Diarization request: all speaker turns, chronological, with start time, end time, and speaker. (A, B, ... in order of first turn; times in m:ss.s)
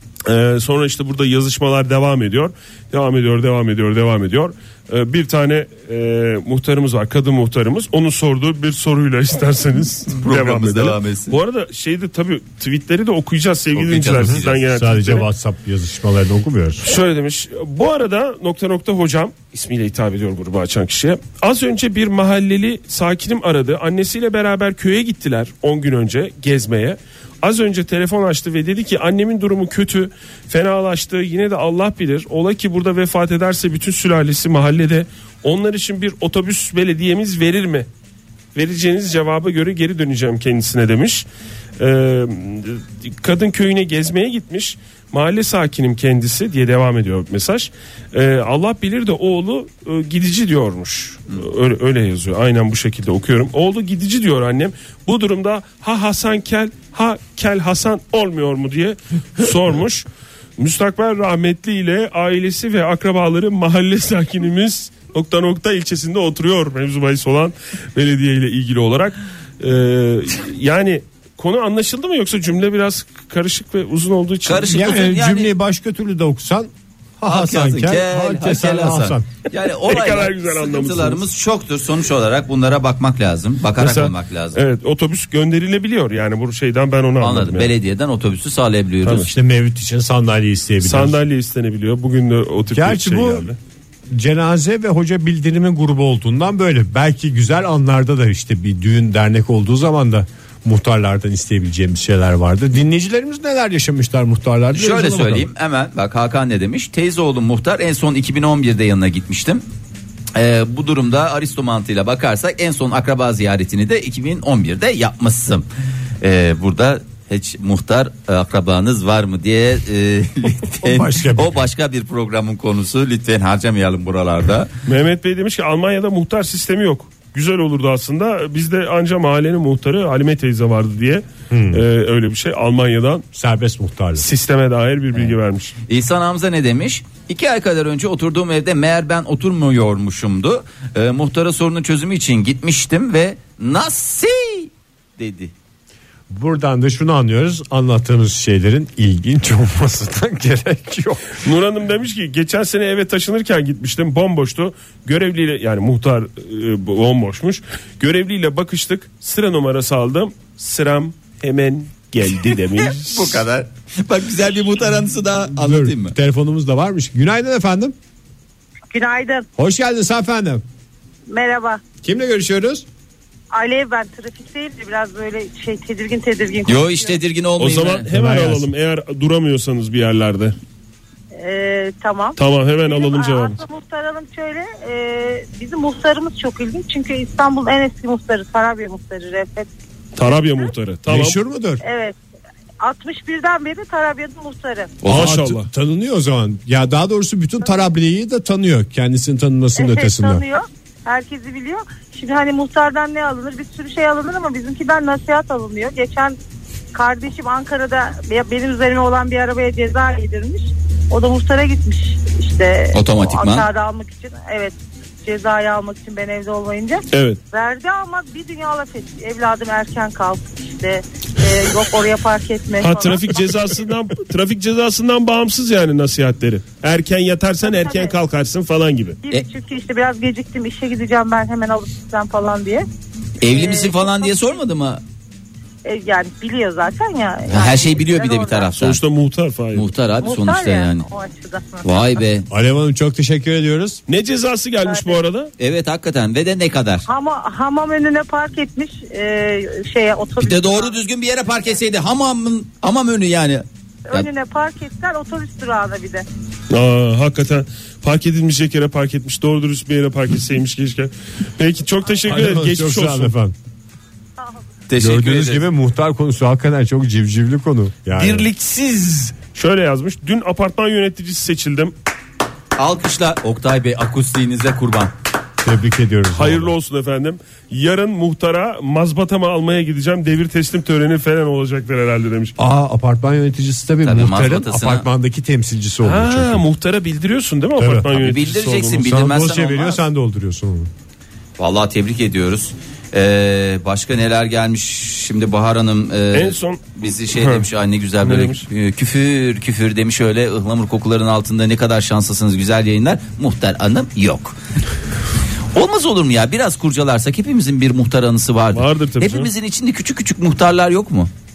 0:00.2-0:15.3 A
0:10.1-0:11.4 B
0:13.7-0:14.6 B
0:14.7-0:16.9 C
0:16.8-0:37.9 A
0:38.5-0:41.2 A
0:41.8-1:00.1 A
1:00.6-1:14.8 A
1:14.4-1:15.5 B
1:14.7-1:19.3 C
1:17.2-1:24.6 B
1:19.8-1:21.2 A
1:23.8-1:27.7 A
1:27.2-1:29.3 B
1:29.0-1:29.3 A
1:29.3-1:31.2 C
1:30.8-1:33.6 A
1:32.7-1:33.5 C
1:34.1-1:45.5 C
1:44.7-1:49.6 B
1:50.3-1:55.6 B
1:56.2-2:04.7 B
2:00.8-2:01.7 C
2:04.8-2:13.2 A
2:11.5-2:11.8 C
2:13.3-2:14.2 C
2:14.2-2:15.7 A
2:15.9-2:25.5 B
2:26.3-2:31.4 C
2:31.4-2:43.4 A
2:42.8-2:46.2 B
2:45.5-2:47.9 C
2:48.9-2:49.4 D
2:49.6-2:50.6 C
2:51.3-2:51.8 D
2:52.0-2:52.8 C
2:53.5-2:57.2 D
2:56.6-2:58.1 B
2:57.6-3:00.6 A
2:58.1-2:58.7 C
3:01.3-3:09.7 D
3:02.4-3:03.6 A
3:10.2-3:11.4 A
3:11.1-3:11.8 C
3:11.8-3:12.1 D
3:12.8-3:14.9 D
3:15.0-3:15.4 B
3:15.0-3:15.7 A
3:15.1-3:20.4 C
3:19.8-3:26.4 D
3:26.9-3:43.8 D
3:32.9-3:33.7 B
3:37.1-3:37.4 A
3:42.8-3:49.2 A
3:47.6-3:48.1 D
3:49.3-3:52.8 D
3:53.4-3:55.0 B
3:53.4-3:54.6 D
3:55.8-3:58.9 D
3:57.5-3:59.0 B
3:58.8-3:59.9 A
3:59.7-4:01.0 B
4:00.2-4:02.2 D
4:01.8-4:02.5 B
4:02.5-4:04.0 C
4:04.1-4:05.5 A
4:04.8-4:05.2 D
4:05.6-4:07.1 B
4:07.1-4:11.0 D
4:10.4-4:14.3 B
4:14.1-4:16.2 D
4:16.7-4:23.3 A
4:22.3-4:23.5 C
4:24.9-4:25.7 B
4:25.0-4:28.5 C
4:28.2-4:31.9 A
4:32.8-4:35.1 B
4:35.6-4:36.7 C
4:36.3-4:42.5 A
4:42.6-4:46.6 C
4:44.0-4:45.1 B
4:46.0-4:49.0 A
4:47.8-4:48.1 C
4:48.1-4:50.0 B
4:48.9-4:50.9 C
4:51.6-5:04.6 B
4:56.3-4:57.7 A
4:58.2-4:58.6 A
5:05.7-5:11.3 B
5:08.7-5:09.5 A